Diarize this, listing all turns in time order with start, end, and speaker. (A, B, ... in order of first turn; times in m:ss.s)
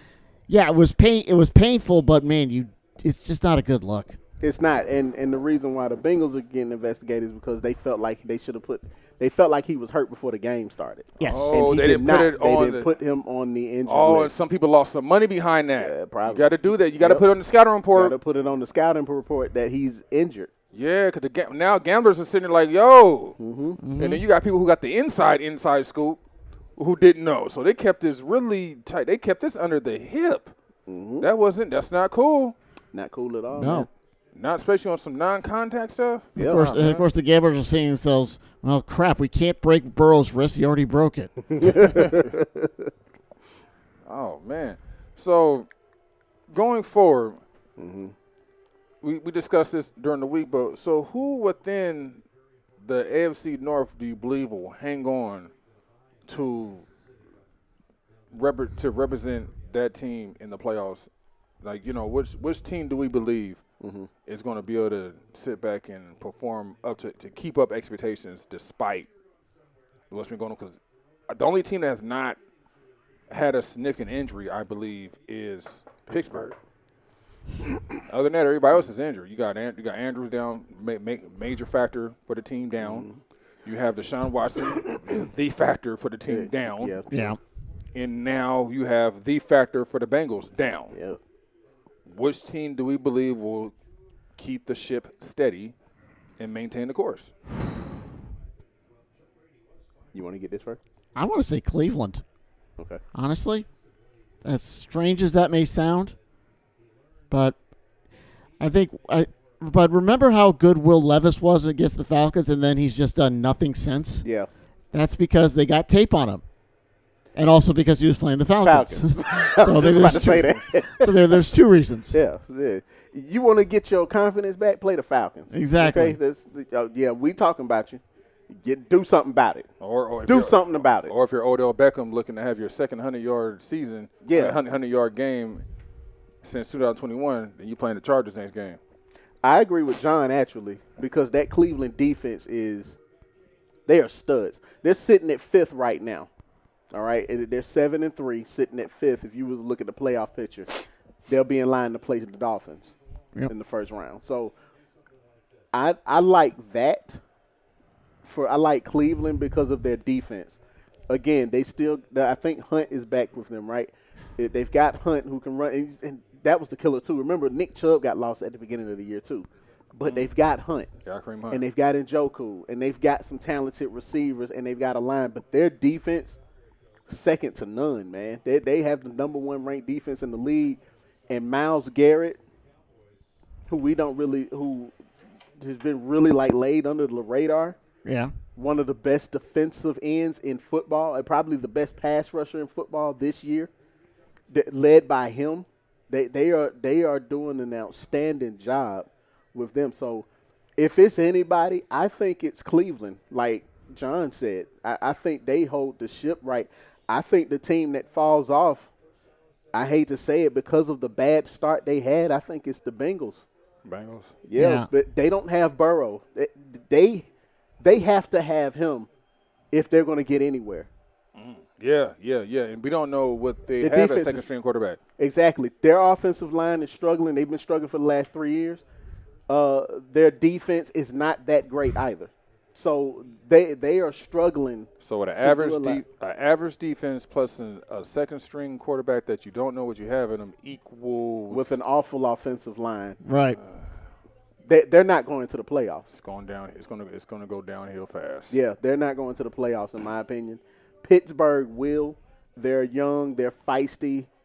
0:00.5-0:04.2 A
0:04.4-0:14.3 B
0:11.2-0:11.6 A
0:11.2-0:12.9 C
0:13.8-0:18.2 C
0:15.8-0:17.3 B
0:17.9-0:20.5 B
0:20.7-0:23.4 C
0:23.4-0:23.8 B
0:23.8-0:24.2 A
0:24.0-0:26.2 C
0:26.8-0:30.5 C
0:30.9-0:31.3 B
0:31.2-0:32.5 C
0:32.9-0:33.9 B
0:33.5-0:33.9 A
0:34.3-0:37.0 C
0:36.4-0:36.8 B
0:36.4-0:41.9 A
0:41.5-0:42.7 B
0:44.0-0:45.7 C
0:46.5-0:47.4 C
0:47.8-0:48.1 B
0:49.0-0:52.2 C
0:52.8-0:55.5 C
0:56.3-0:56.8 C
0:58.3-1:01.1 C
1:01.6-1:03.6 C
1:03.8-1:04.1 B
1:04.2-1:09.1 C
1:10.1-1:12.4 C
1:13.3-1:16.5 C
1:16.1-1:16.5 B
1:18.0-1:23.0 C
1:22.8-1:23.2 B
1:23.6-1:27.0 C
1:26.3-1:27.1 B
1:27.1-1:27.4 A
1:27.9-1:31.0 C
1:30.9-1:31.2 B
1:32.0-1:33.7 C
1:34.4-1:35.7 C
1:36.4-1:37.3 C
1:40.1-1:40.8 B
1:41.2-1:42.2 A
1:43.1-1:43.6 A
1:44.4-1:46.1 A
1:47.3-1:47.6 A
1:48.6-1:54.2 A
1:54.2-1:54.5 B
1:54.9-1:56.4 A
1:57.4-2:02.2 A
1:58.6-2:01.4 B
1:59.9-2:00.5 C
2:02.1-2:09.7 B
2:05.5-2:06.2 A
2:09.8-2:15.6 C
2:10.2-2:11.1 B
2:14.2-2:14.6 B
2:16.4-2:18.8 C
2:19.4-2:23.0 B
2:23.9-2:26.3 B
2:26.9-2:32.9 B
2:33.5-2:34.5 B
2:35.7-2:37.2 B
2:38.2-2:40.6 B
2:41.1-2:50.9 B
2:51.0-2:51.6 C
2:51.5-2:56.4 B
2:57.1-3:02.4 B
3:03.7-3:04.9 B
3:05.6-3:07.8 B
3:08.0-3:08.3 A
3:08.6-3:13.7 B
3:14.5-3:28.9 B
3:29.7-3:33.4 B
3:33.8-3:34.3 C
3:34.4-3:37.3 B
3:34.5-3:34.9 A
3:37.8-3:39.1 B
3:39.7-3:40.9 B
3:41.4-3:45.0 C
3:43.8-3:44.4 B
3:45.2-3:48.8 B
3:49.5-3:56.0 B
3:55.0-4:01.8 C
4:01.5-4:03.2 B
4:03.2-4:03.6 A
4:03.6-4:03.8 C
4:04.6-4:06.1 B
4:06.1-4:08.6 C
4:08.5-4:14.3 B